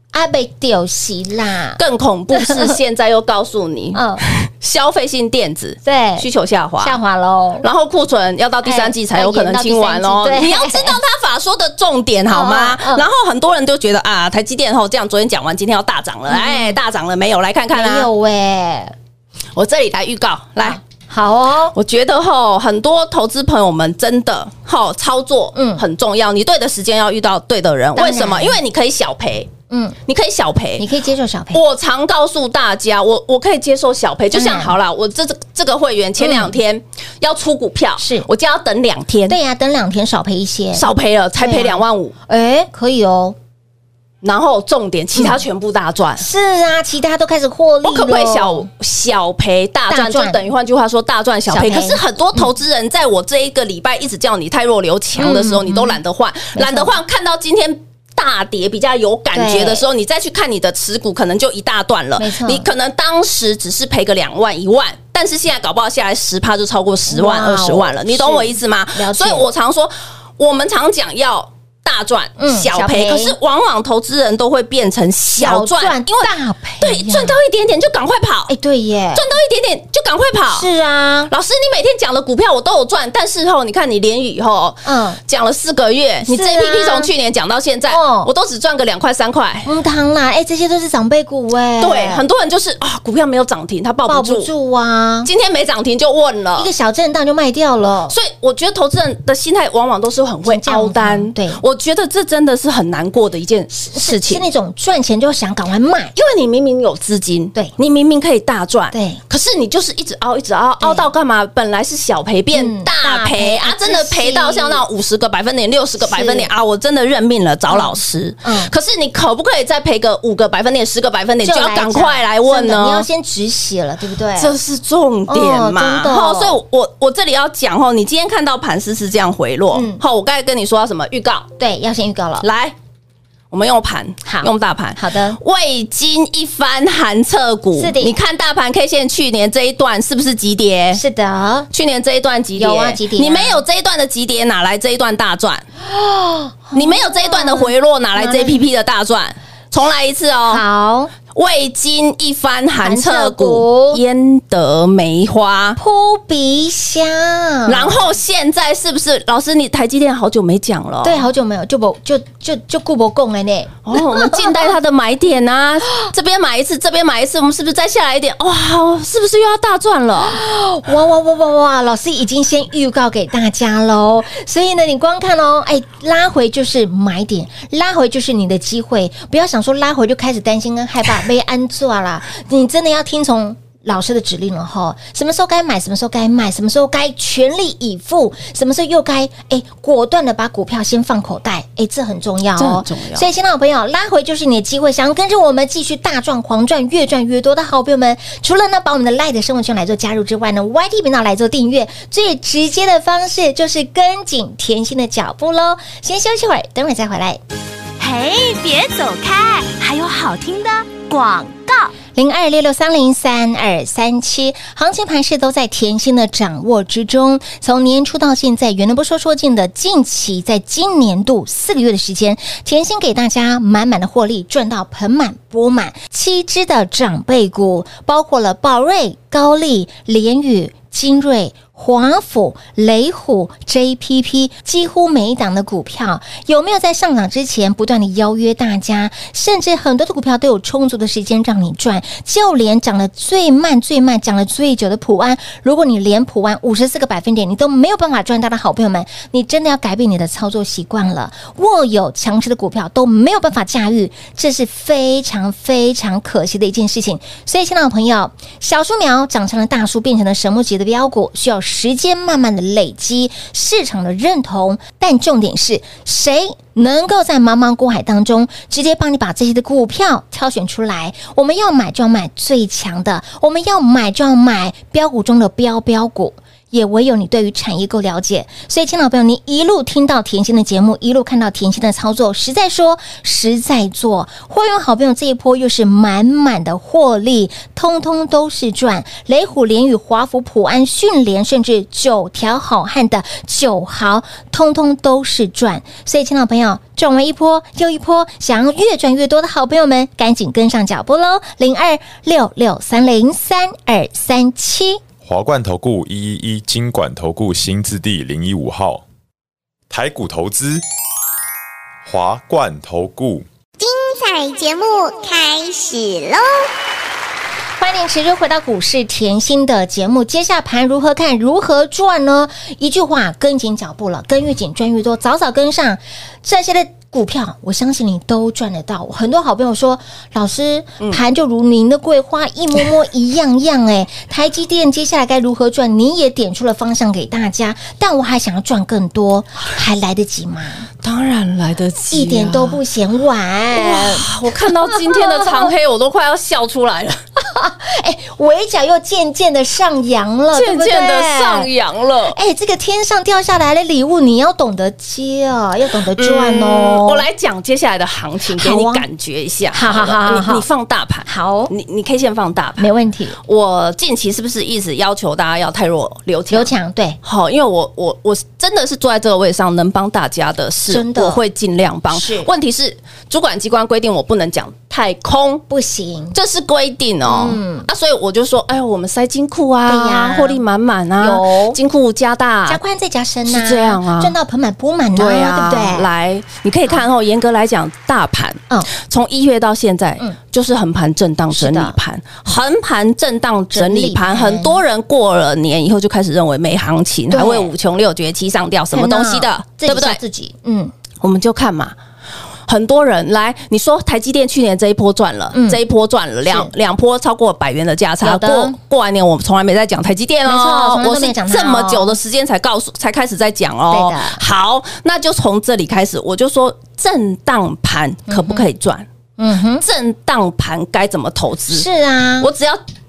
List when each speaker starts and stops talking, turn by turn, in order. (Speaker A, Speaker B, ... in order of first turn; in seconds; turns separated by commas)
Speaker A: 0.1-1.8, Speaker B: 1.8-7.0, Speaker A: 2.4-2.8, Speaker A: 4.0-4.2, Speaker A: 5.8-6.3, Speaker A: 6.8-7.7, Speaker B: 7.6-18.1, Speaker A: 8.6-11.0, Speaker A: 12.3-13.1, Speaker A: 16.3-16.8, Speaker A: 17.7-18.9, Speaker B: 19.6-20.8, Speaker A: 20.6-21.8, Speaker B: 21.8-29.5, Speaker A: 25.6-25.8, Speaker A: 28.0-28.6, Speaker A: 29.7-30.0, Speaker B: 30.1-30.9, Speaker A: 30.8-31.6, Speaker B: 31.5-39.4, Speaker A: 34.3-34.8, Speaker A: 36.2-36.5, Speaker A: 38.0-38.3, Speaker A: 39.3-40.9, Speaker B: 40.8-42.1, Speaker A: 41.4-43.4, Speaker B: 44.2-46.2, Speaker A: 46.2-48.7, Speaker B: 47.8-78.5, Speaker A: 49.9-50.4, Speaker A: 51.5-52.5, Speaker A: 55.2-56.0, Speaker A: 56.5-57.0, Speaker A: 59.3-59.9, Speaker A: 62.2-62.7, Speaker A: 67.1-69.5, Speaker A: 72.4-73.4, Speaker A: 75.4-77.4, Speaker A: 78.5-79.3, Speaker B: 79.2-80.7, Speaker A: 80.5-81.3, Speaker B: 81.3-89.7, Speaker A: 84.8-85.2, Speaker A: 86.3-87.1, Speaker A: 87.9-88.3, Speaker A: 89.7-92.2, Speaker B: 91.8-94.5, Speaker A: 94.1-95.3, Speaker B: 95.2-96.7, Speaker A: 96.6-98.2, Speaker B: 98.1-104.5, Speaker A: 100.5-101.6, Speaker A: 103.7-106.1, Speaker B: 106.2-123.1, Speaker A: 108.9-109.2, Speaker A: 110.8-111.1, Speaker A: 112.5-114.8, Speaker A: 116.0-116.5, Speaker A: 117.7-118.7, Speaker A: 121.4-124.5, Speaker B: 124.4-131.5, Speaker A: 125.3-126.6, Speaker A: 129.7-130.0, Speaker A: 131.6-132.5, Speaker B: 132.4-132.7, Speaker B: 133.5-141.0, Speaker A: 134.2-135.4, Speaker A: 137.8-138.2, Speaker A: 140.9-141.7, Speaker B: 141.7-145.7, Speaker A: 142.6-143.6, Speaker A: 145.8-148.6, Speaker B: 146.7-150.6, Speaker A: 150.5-151.1, Speaker B: 151.3-155.8, Speaker A: 152.8-154.0, Speaker A: 155.8-158.0, Speaker B: 157.7-161.3, Speaker A: 161.0-164.7, Speaker B: 163.9-170.4, Speaker A: 170.2-207.4, Speaker B: 192.6-193.3, Speaker C: 208.0-211.9, Speaker A: 212.2-305.0, Speaker D: 305.2-309.1, Speaker D: 309.9-310.8, Speaker D: 312.1-313.5, Speaker E: 313.8-316.7, Speaker A: 317.8-340.9, Speaker B: 341.0-342.8, Speaker A: 342.1-345.7, Speaker B: 343.7-347.2, Speaker A: 347.4-351.7, Speaker B: 350.5-352.4, Speaker A: 352.3-357.3, Speaker B: 356.2-362.9, Speaker A: 358.5-359.1, Speaker A: 359.7-360.6, Speaker A: 361.3-361.7, Speaker A: 362.8-363.4, Speaker B: 363.4-366.7, Speaker A: 366.5-367.2, Speaker B: 367.2-375.6, Speaker A: 370.9-371.4, Speaker A: 372.1-372.5, Speaker A: 375.7-376.4, Speaker B: 376.3-382.8, Speaker A: 377.3-377.9, Speaker A: 379.9-380.6, Speaker A: 381.2-381.8, Speaker A: 382.7-386.1, Speaker B: 383.5-384.4, Speaker B: 385.2-400.2, Speaker A: 391.5-391.9, Speaker A: 393.7-394.8, Speaker A: 397.3-397.7, Speaker A: 398.9-400.9, Speaker B: 401.2-401.9, Speaker B: 402.7-419.1, Speaker A: 405.5-405.8, Speaker A: 406.5-406.7, Speaker A: 408.2-408.8, Speaker A: 410.5-412.2, Speaker A: 413.9-414.4, Speaker A: 418.3-418.7, Speaker A: 419.4-419.8, Speaker B: 419.8-421.9, Speaker A: 421.7-422.5, Speaker B: 422.4-422.8